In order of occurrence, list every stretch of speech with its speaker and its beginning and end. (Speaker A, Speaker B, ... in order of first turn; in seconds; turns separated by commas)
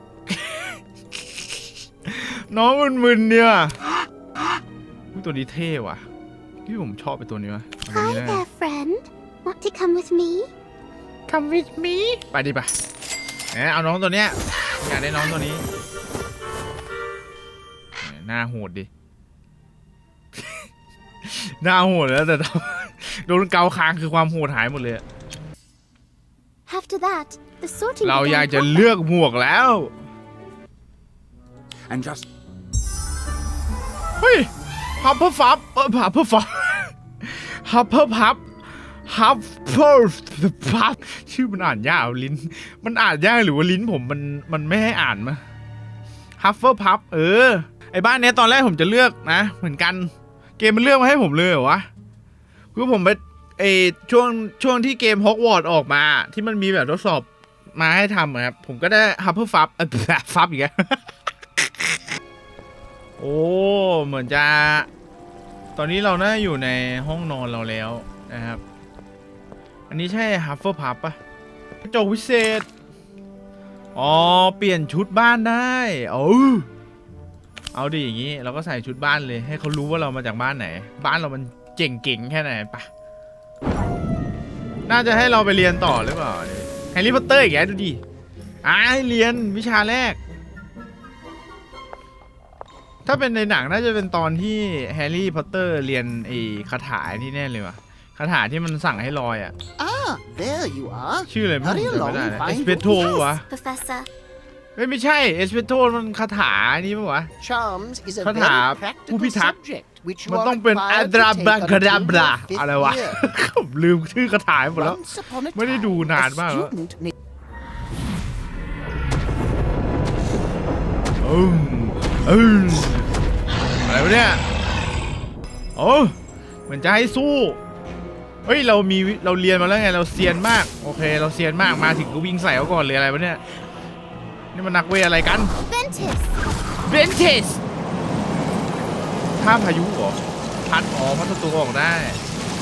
Speaker A: 0.3-3.8, Speaker A: 5.1-6.0, Speaker A: 6.6-8.4, Speaker B: 7.9-10.5, Speaker A: 11.3-12.7, Speaker A: 13.5-15.7, Speaker A: 18.0-18.9, Speaker A: 20.4-20.7, Speaker A: 21.2-25.0, Speaker B: 26.7-28.9, Speaker A: 28.0-29.9, Speaker C: 31.9-32.2, Speaker A: 34.2-45.4, Speaker A: 46.4-51.9, Speaker A: 52.7-61.1, Speaker A: 63.2-64.9, Speaker A: 65.8-68.6, Speaker A: 69.9-71.2, Speaker A: 71.8-72.7, Speaker A: 73.9-76.7, Speaker A: 77.7-82.9, Speaker A: 84.9-88.0, Speaker A: 88.6-90.2, Speaker A: 93.0-99.5, Speaker C: 99.8-103.1, Speaker A: 101.3-103.4, Speaker B: 102.8-104.1, Speaker A: 104.8-107.3, Speaker C: 107.4-113.2, Speaker A: 108.2-109.5, Speaker A: 110.3-115.0, Speaker C: 114.7-117.1, Speaker A: 115.5-116.7, Speaker A: 121.2-123.1, Speaker A: 123.8-124.4, Speaker A: 125.7-126.2, Speaker A: 126.7-127.6, Speaker A: 128.4-133.4, Speaker A: 134.5-135.5, Speaker B: 135.7-136.4, Speaker A: 136.8-137.6, Speaker A: 139.4-142.2